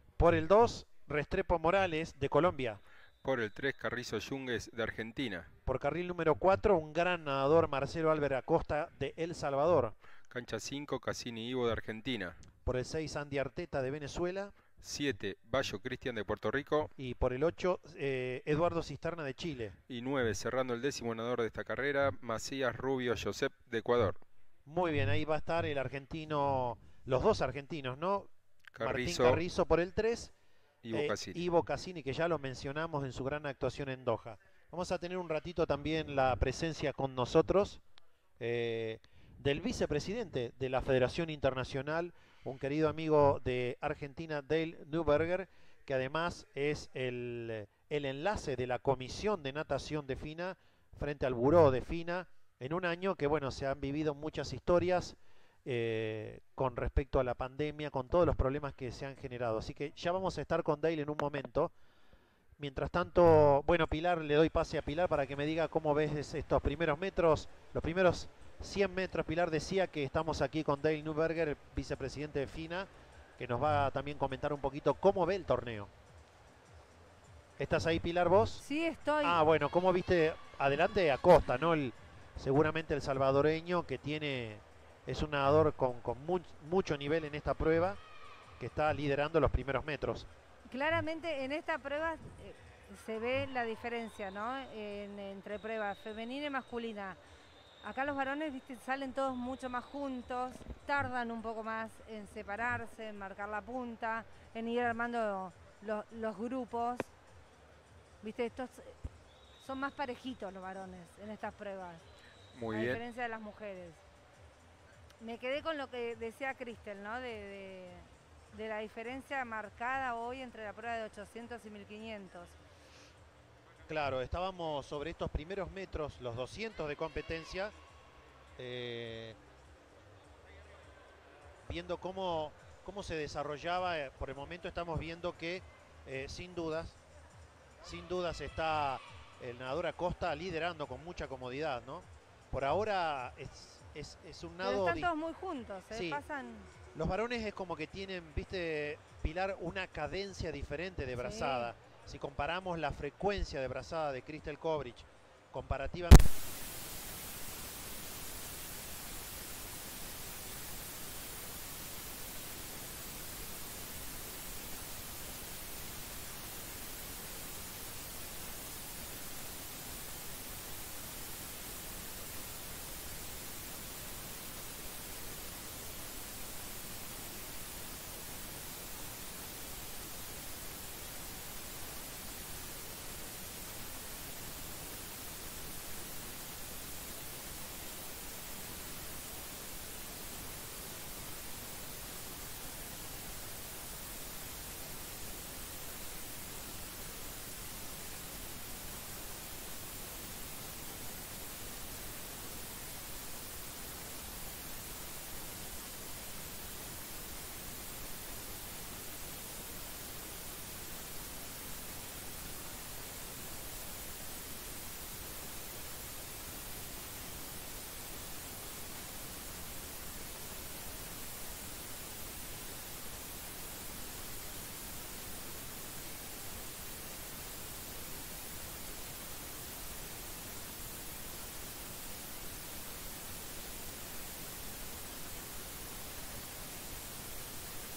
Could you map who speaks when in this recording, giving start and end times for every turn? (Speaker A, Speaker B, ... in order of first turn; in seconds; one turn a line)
Speaker A: 0.2-2.8
Speaker B: 3.2-5.5
Speaker A: 5.7-9.9
Speaker B: 10.3-12.3
Speaker A: 12.6-14.5
Speaker B: 14.8-16.9
Speaker A: 17.0-19.7
Speaker B: 19.9-24.2
Speaker A: 24.6-28.3
Speaker B: 28.7-29.4
Speaker A: 28.8-30.3
Speaker B: 30.8-31.4
Speaker A: 30.9-37.8
Speaker A: 38.4-61.7
Speaker A: 62.6-75.9
Speaker A: 77.6-78.6
Speaker C: 78.6-79.4
Speaker A: 79.2-88.0
Speaker A: 88.6-90.3
Speaker C: 90.7-97.2
Speaker C: 97.8-107.1
Speaker C: 108.2-109.0
Speaker C: 109.6-112.0
Speaker B: 112.5-113.0
Speaker C: 112.7-114.0
Speaker C: 115.2-122.5
Speaker A: 123.9-127.7
Speaker A: 128.6-129.4
Speaker A: 131.7-137.0
Speaker A: 137.8-145.1
Speaker C: 144.6-146.7
Speaker A: 145.9-146.2
Speaker A: 146.9-156.3
Speaker C: 151.2-151.7